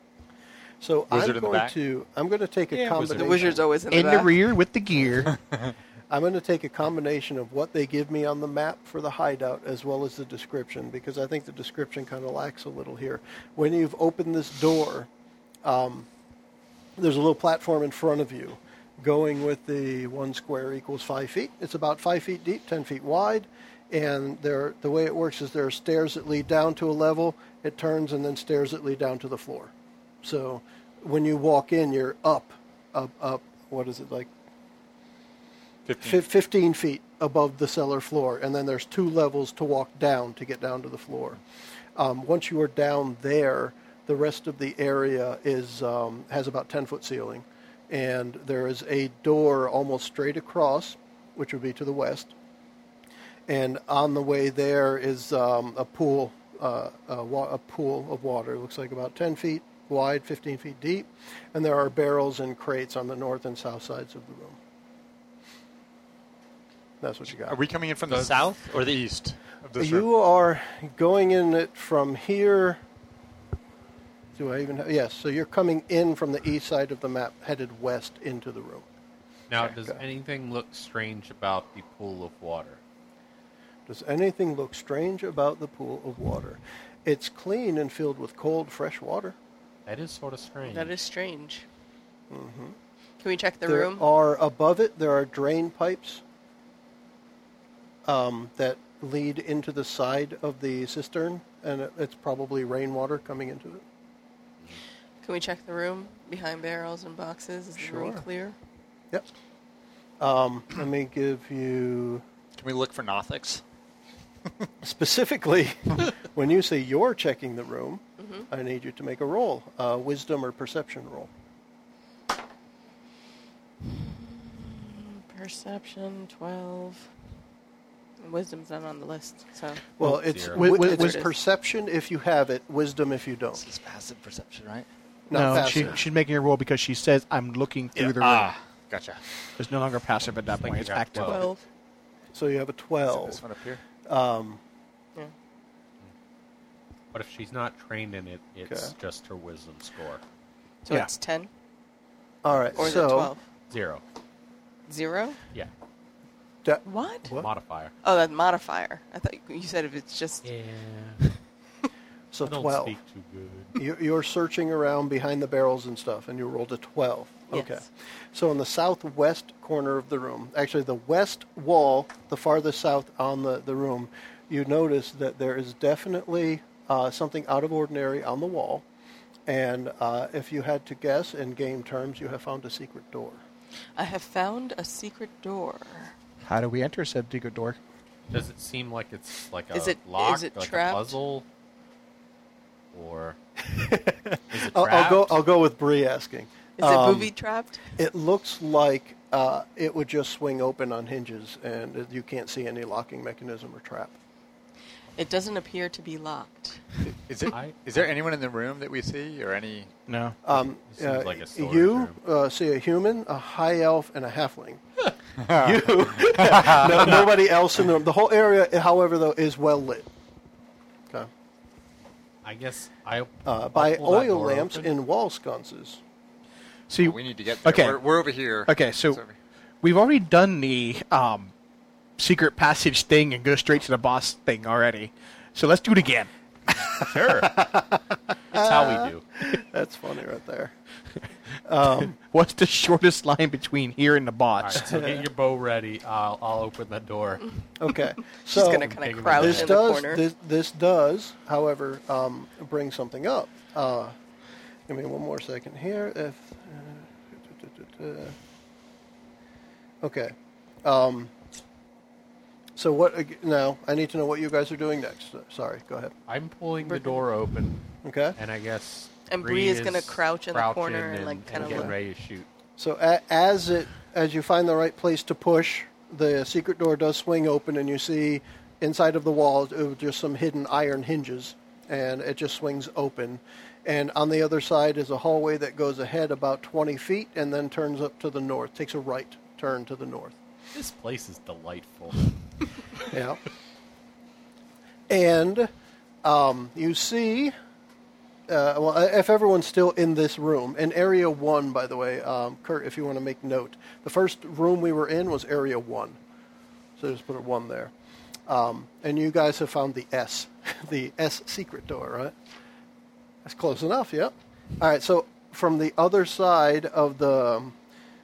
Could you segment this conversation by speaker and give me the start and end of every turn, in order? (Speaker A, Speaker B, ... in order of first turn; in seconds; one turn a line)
Speaker A: 0.8-3.6
Speaker B: 1.1-1.8
Speaker C: 2.7-3.6
Speaker D: 2.9-4.4
Speaker E: 3.9-5.3
Speaker B: 5.4-5.7
Speaker A: 6.1-15.1
Speaker A: 15.6-16.1
Speaker A: 17.0-29.7
Speaker A: 30.2-34.3
Speaker B: 35.9-36.2
Speaker A: 36.0-41.4
Speaker A: 42.0-52.3
Speaker A: 53.5-64.6
Speaker A: 67.0-67.6
Speaker B: 67.5-70.1
Speaker C: 68.1-68.4
Speaker A: 69.8-72.8
Speaker A: 74.4-78.9
Speaker C: 79.5-82.8
Speaker A: 79.7-80.0
Speaker A: 83.9-89.4
Speaker C: 89.9-91.0
Speaker D: 90.6-91.7
Speaker A: 92.3-92.8
Speaker D: 93.2-94.1
Speaker A: 93.7-96.2
Speaker A: 98.0-103.8
Speaker D: 105.2-108.6
Speaker A: 107.8-108.2
Speaker A: 110.2-112.2
Speaker B: 112.6-113.6
Speaker A: 114.8-121.3
Speaker D: 118.2-118.5
Speaker D: 123.9-127.1
Speaker D: 128.2-129.8
Speaker A: 130.0-133.6
Speaker E: 130.0-131.2
Speaker C: 130.2-130.7
Speaker D: 130.7-131.3
Speaker B: 133.6-134.9
Speaker A: 135.3-136.0
Speaker E: 135.3-138.5
Speaker B: 138.0-139.2
Speaker E: 139.6-141.4
Speaker C: 140.6-141.5
Speaker D: 141.2-141.6
Speaker A: 142.3-143.4
Speaker B: 143.1-143.8
Speaker A: 144.1-144.6
Speaker C: 147.1-150.2
Speaker A: 148.7-148.9
Speaker D: 150.8-151.5
Speaker A: 152.4-153.3
Speaker D: 152.8-153.4
Speaker C: 153.7-154.0
Speaker D: 154.9-155.4
Speaker A: 156.6-157.5
Speaker D: 156.8-157.3
Speaker C: 157.3-157.9
Speaker D: 158.0-160.5
Speaker C: 160.4-161.2
Speaker A: 162.3-163.0
Speaker C: 162.4-163.8
Speaker A: 163.8-178.8
Speaker D: 167.5-167.8
Speaker A: 179.5-183.4
Speaker D: 184.0-186.1
Speaker E: 186.4-187.8
Speaker C: 188.3-191.4
Speaker D: 189.7-191.2
Speaker C: 192.9-193.4
Speaker A: 193.6-197.3
Speaker C: 194.5-195.4
Speaker D: 196.8-197.8
Speaker A: 198.0-204.2
Speaker D: 205.2-207.0
Speaker B: 207.3-209.9
Speaker C: 207.5-208.1
Speaker E: 210.1-210.4
Speaker A: 210.4-214.8
Speaker C: 210.9-212.2
Speaker B: 215.4-217.3
Speaker A: 215.5-220.1
Speaker C: 222.4-224.9
Speaker A: 223.4-226.0
Speaker E: 226.9-228.0
Speaker B: 227.0-229.3
Speaker E: 228.7-229.2
Speaker E: 229.8-231.5
Speaker E: 232.2-236.3
Speaker C: 237.0-237.6
Speaker A: 237.4-240.7
Speaker C: 238.5-239.2
Speaker A: 241.7-242.2
Speaker E: 242.2-244.9
Speaker C: 244.6-247.5
Speaker A: 244.8-245.3
Speaker A: 247.8-254.2
Speaker D: 248.4-250.2
Speaker C: 248.6-249.9
Speaker A: 254.9-258.4
Speaker A: 260.0-261.3
Speaker A: 262.8-266.1
Speaker C: 266.3-267.9
Speaker D: 266.9-267.2
Speaker A: 268.0-268.4
Speaker C: 268.4-272.5
Speaker D: 269.3-271.9
Speaker A: 271.5-272.0
Speaker A: 272.8-290.4
Speaker C: 290.7-292.3
Speaker A: 293.1-293.4
Speaker A: 295.1-295.7
Speaker A: 296.2-297.5
Speaker A: 298.5-306.2
Speaker A: 307.0-307.9
Speaker A: 308.5-312.3
Speaker A: 313.4-317.8